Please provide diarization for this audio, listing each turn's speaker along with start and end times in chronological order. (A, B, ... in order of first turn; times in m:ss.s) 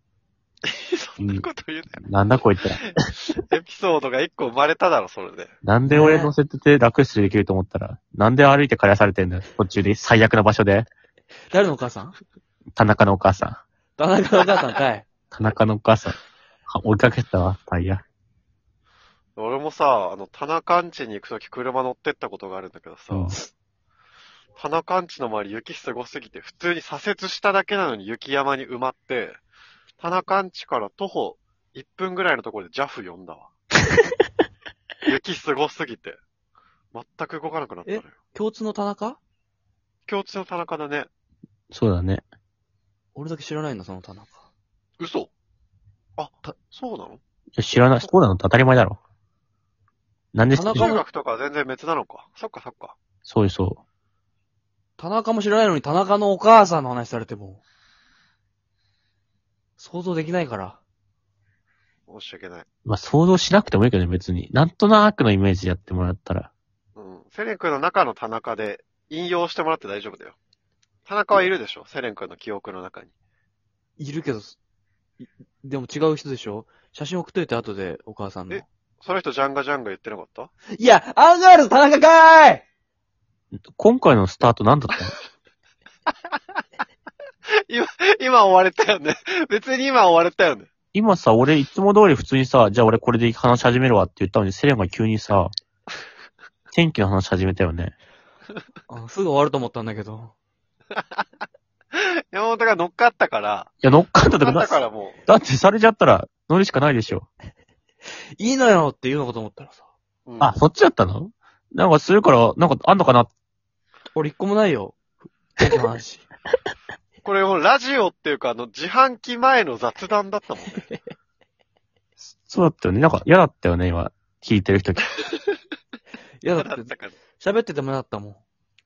0:00.6-0:02.0 A
0:01.2-0:01.5 B
0:02.0-0:03.0 B
0:03.3-0:05.5 A
0:05.6-0:10.9 B
0:05.9-0:06.3 C
0:11.5-0:12.2 C
0:12.8-0:13.6 B
0:14.0-0:15.1 C
0:15.3-0:18.0 B
0:19.4-0:23.4 A
0:23.1-0:23.4 B
0:24.6-0:29.4 A
0:30.0-0:33.5 A
0:35.0-0:36.2 A
0:36.9-0:38.2 A
0:37.8-0:39.2 C
0:40.1-0:41.1 A
0:41.7-0:42.2 B
0:43.2-0:44.5 C
0:45.0-0:45.3 A
0:46.2-0:47.2 A
0:47.6-0:49.0 B
0:50.3-0:50.9 B
0:50.5-0:51.0 C
0:50.7-0:52.9 A
0:53.2-0:53.8 B
0:55.0-0:57.6 C
0:59.8-1:00.8 C
1:02.1-1:02.7 A
1:02.9-1:06.5 B
1:07.0-1:10.4 A
1:11.1-1:13.1 A
1:14.0-1:14.6 C
1:15.2-1:18.6 C
1:18.5-1:20.5 A
1:20.8-1:22.6 C
1:23.8-1:25.1 B
1:27.7-1:30.7 A
1:30.9-1:35.5 B
1:36.7-1:37.9 B
1:38.9-1:40.3 C
1:40.9-1:41.2 A
1:41.9-1:43.7 A
1:43.8-1:47.3 B
1:44.4-1:45.2 A
1:48.4-1:49.9 C
1:50.3-1:50.6 A
1:50.4-1:53.3 B
1:54.2-1:56.2 C
1:57.2-2:00.8 A
2:02.2-2:05.1 B
2:06.4-2:08.4 C
2:06.5-2:07.2 A